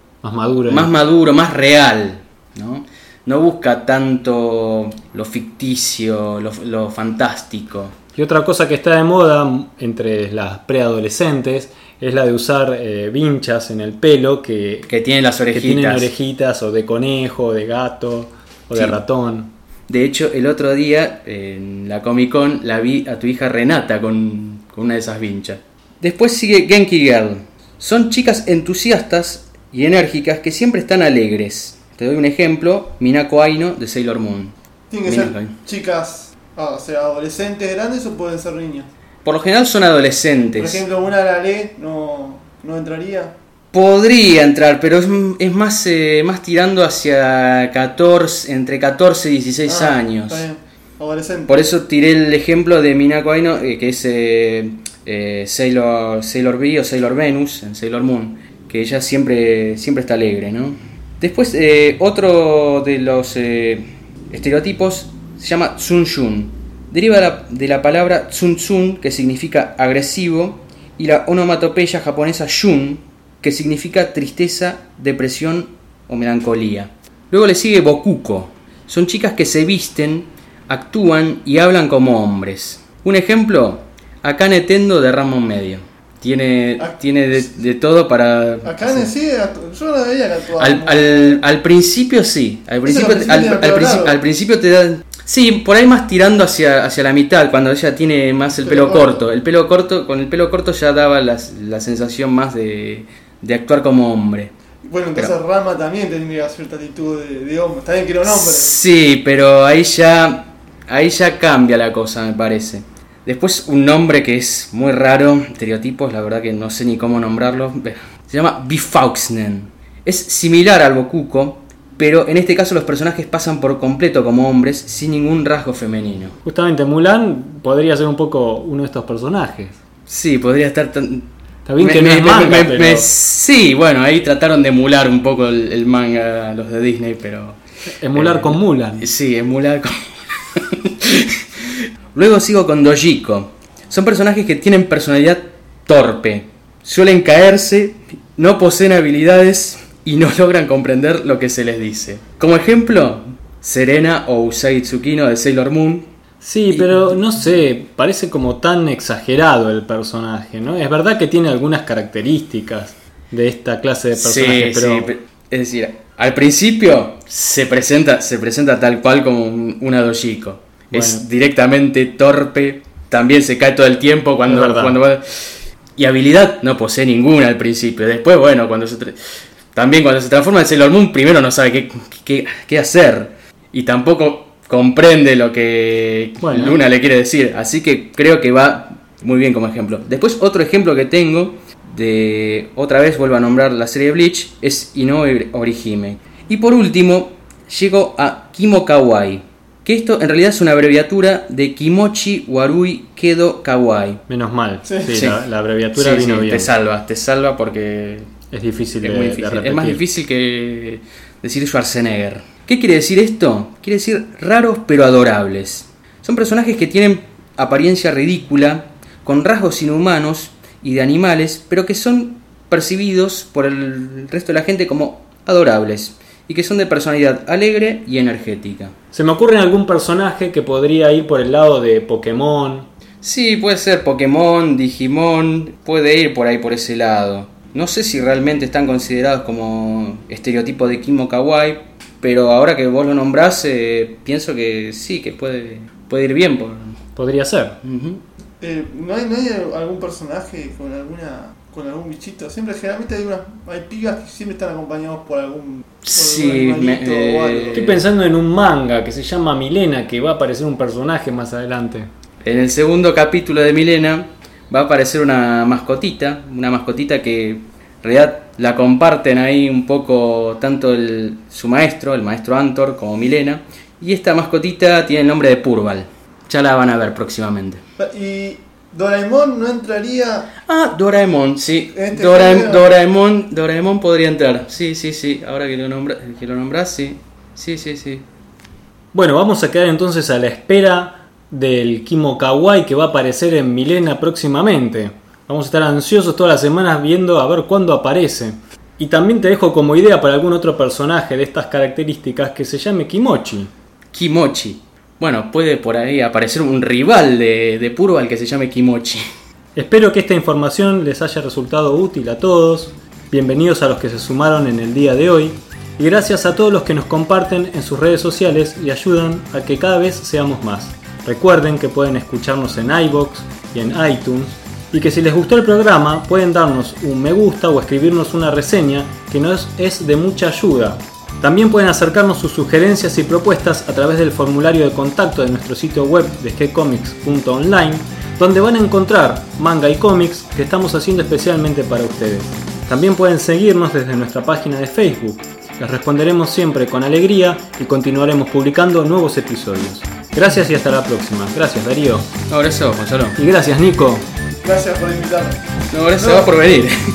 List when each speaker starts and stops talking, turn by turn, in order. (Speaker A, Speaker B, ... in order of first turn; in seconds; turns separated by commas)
Speaker A: 0.2-0.9, Speaker B: 0.7-7.9, Speaker A: 8.2-14.9, Speaker B: 14.9-16.1, Speaker A: 15.5-19.5, Speaker B: 18.7-19.0, Speaker B: 19.9-34.5, Speaker C: 34.9-38.9, Speaker B: 35.0-35.5, Speaker B: 39.2-40.8, Speaker C: 40.6-43.3, Speaker B: 43.7-50.4, Speaker C: 49.6-51.6, Speaker B: 51.5-89.1, Speaker C: 86.8-87.5, Speaker C: 88.6-91.4, Speaker B: 90.6-104.5, Speaker C: 92.8-94.2, Speaker C: 98.6-99.2, Speaker C: 104.8-108.7, Speaker B: 108.2-126.3, Speaker A: 126.4-129.8, Speaker B: 130.1-137.6, Speaker A: 131.7-133.1, Speaker A: 138.0-139.1, Speaker B: 138.1-156.1, Speaker A: 156.4-165.1, Speaker B: 156.7-157.2, Speaker B: 164.1-179.1, Speaker A: 170.9-171.3, Speaker A: 174.4-175.0, Speaker B: 179.7-204.2, Speaker A: 186.4-186.8, Speaker A: 204.3-206.7, Speaker C: 204.8-205.1, Speaker B: 205.1-208.3, Speaker A: 208.5-210.0, Speaker B: 209.0-228.9, Speaker A: 229.1-232.9, Speaker B: 233.2-247.0, Speaker A: 247.2-247.8, Speaker B: 247.8-248.2, Speaker C: 248.6-257.9, Speaker B: 256.0-258.0, Speaker A: 257.7-262.1, Speaker B: 262.4-277.8, Speaker C: 278.0-280.5, Speaker B: 280.6-288.2, Speaker C: 281.9-282.9, Speaker A: 289.1-303.7, Speaker B: 304.1-309.2, Speaker A: 309.7-352.3, Speaker B: 352.5-353.4, Speaker A: 353.4-354.2, Speaker C: 354.6-355.6, Speaker B: 355.9-356.9, Speaker C: 356.2-356.6